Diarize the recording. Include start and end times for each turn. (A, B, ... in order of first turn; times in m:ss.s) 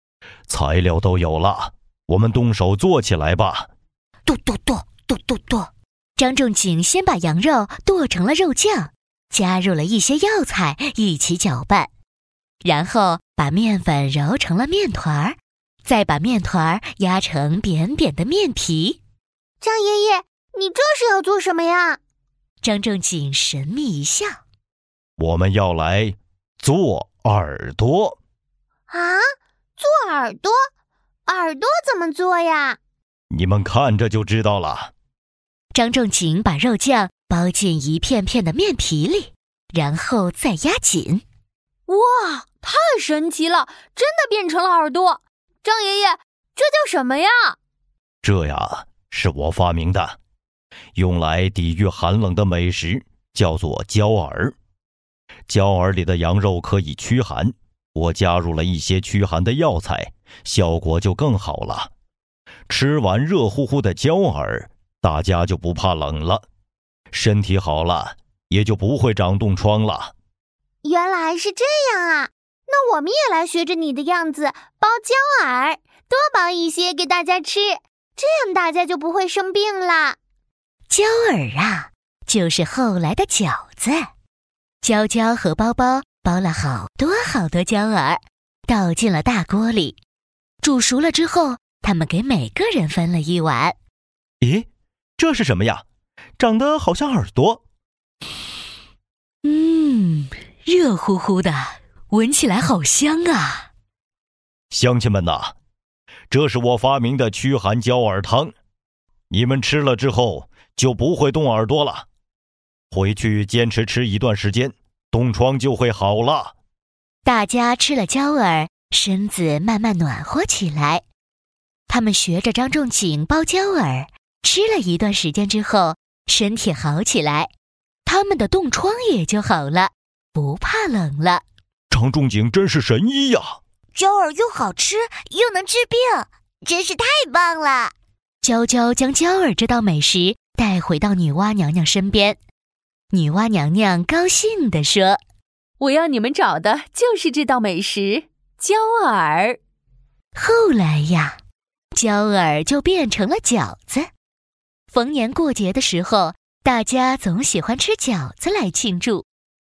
0:00.5-0:03.7 A
0:04.3-0:11.9 B
0:12.6-0:19.0 B
0:19.6-0:22.0 C
0:22.6-0:24.4 B
0:25.2-0:28.2 A
0:28.9-0:29.2 C
0:29.8-0:30.6 C
0:31.3-0:32.8 C
0:33.3-0:34.9 A
0:35.7-0:41.2 B
0:41.9-0:47.6 D
0:48.2-0:50.2 A
0:51.0-0:54.6 A
0:55.5-1:01.9 A
1:02.7-1:06.4 A
1:07.1-1:10.1 A
1:10.8-1:20.2 C
1:20.9-1:24.1 B
1:24.8-1:30.0 B
1:30.6-1:33.8 B
1:34.4-1:34.7 A
1:35.2-1:35.8 A
1:36.4-1:37.6 A
1:39.4-1:43.7 B
1:44.7-1:45.6 A
1:46.3-1:48.5 A
1:49.3-1:52.1 A
1:52.9-1:56.5 A
1:57.2-2:01.0 B
2:01.9-2:07.5 B
2:08.0-2:11.4 B
2:11.9-2:13.6 A
2:14.0-2:22.4 B
2:23.1-2:25.2 B
2:25.8-2:29.6 D
2:30.4-2:31.4 B
2:31.9-2:34.1 B
2:34.9-2:39.3 B